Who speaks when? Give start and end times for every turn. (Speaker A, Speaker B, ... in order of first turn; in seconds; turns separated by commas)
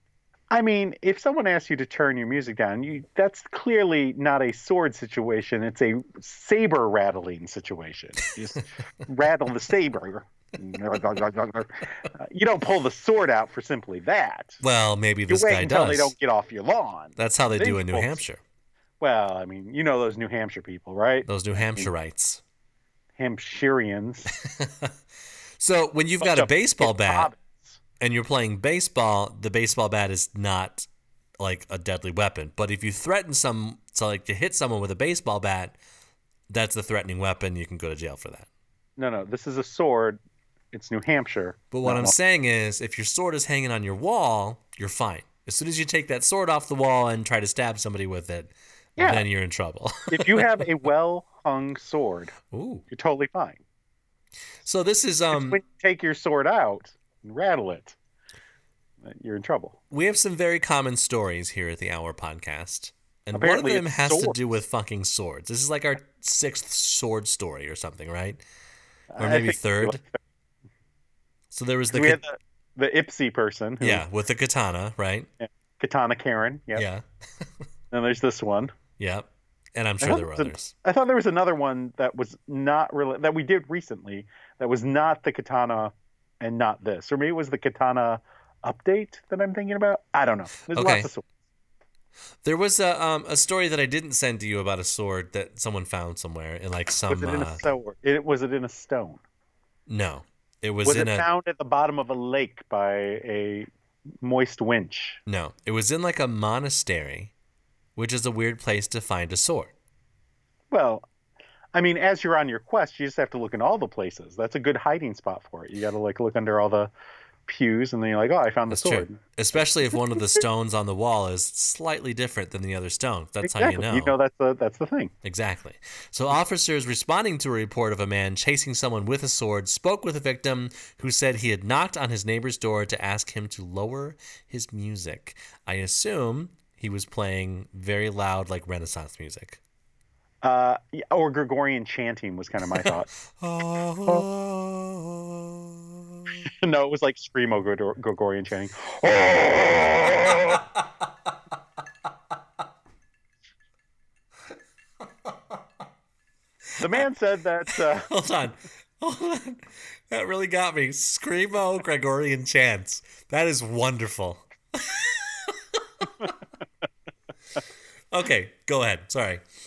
Speaker A: 0.5-14.6, Speaker B: 14.6-16.1, Speaker A: 15.3-18.2, Speaker B: 17.2-18.4, Speaker A: 19.0-21.9, Speaker B: 21.2-22.4, Speaker A: 23.2-24.3, Speaker B: 24.4-24.9, Speaker B: 25.6-27.3, Speaker A: 26.2-27.8, Speaker B: 28.0-30.9, Speaker B: 31.4-35.8, Speaker B: 36.5-38.5, Speaker A: 39.0-40.2, Speaker A: 40.7-42.1, Speaker B: 41.7-50.6, Speaker A: 49.0-49.2, Speaker A: 50.1-52.3, Speaker B: 52.5-52.8, Speaker A: 52.9-53.6, Speaker B: 54.6-55.6, Speaker A: 55.3-58.0, Speaker A: 59.0-59.8, Speaker B: 59.9-68.4, Speaker A: 63.3-64.4, Speaker A: 69.1-70.2, Speaker B: 69.2-70.0, Speaker B: 71.5-72.2, Speaker A: 71.9-74.0, Speaker B: 73.8-75.3, Speaker A: 75.4-76.8, Speaker B: 76.7-77.5, Speaker A: 77.9-78.7, Speaker B: 79.0-80.7, Speaker A: 80.0-91.2, Speaker B: 90.7-91.1, Speaker B: 92.4-97.6, Speaker A: 97.1-99.2, Speaker B: 99.9-101.3, Speaker A: 100.8-103.7, Speaker A: 104.2-105.2, Speaker B: 105.2-107.3, Speaker B: 108.0-109.7, Speaker A: 110.7-111.0, Speaker A: 111.7-116.9, Speaker A: 117.5-119.2, Speaker B: 118.7-124.1, Speaker A: 123.4-125.1, Speaker B: 125.2-139.6, Speaker A: 140.4-143.1, Speaker B: 142.7-146.1, Speaker A: 146.4-150.6, Speaker A: 156.8-158.1, Speaker B: 157.8-166.3, Speaker B: 168.1-169.4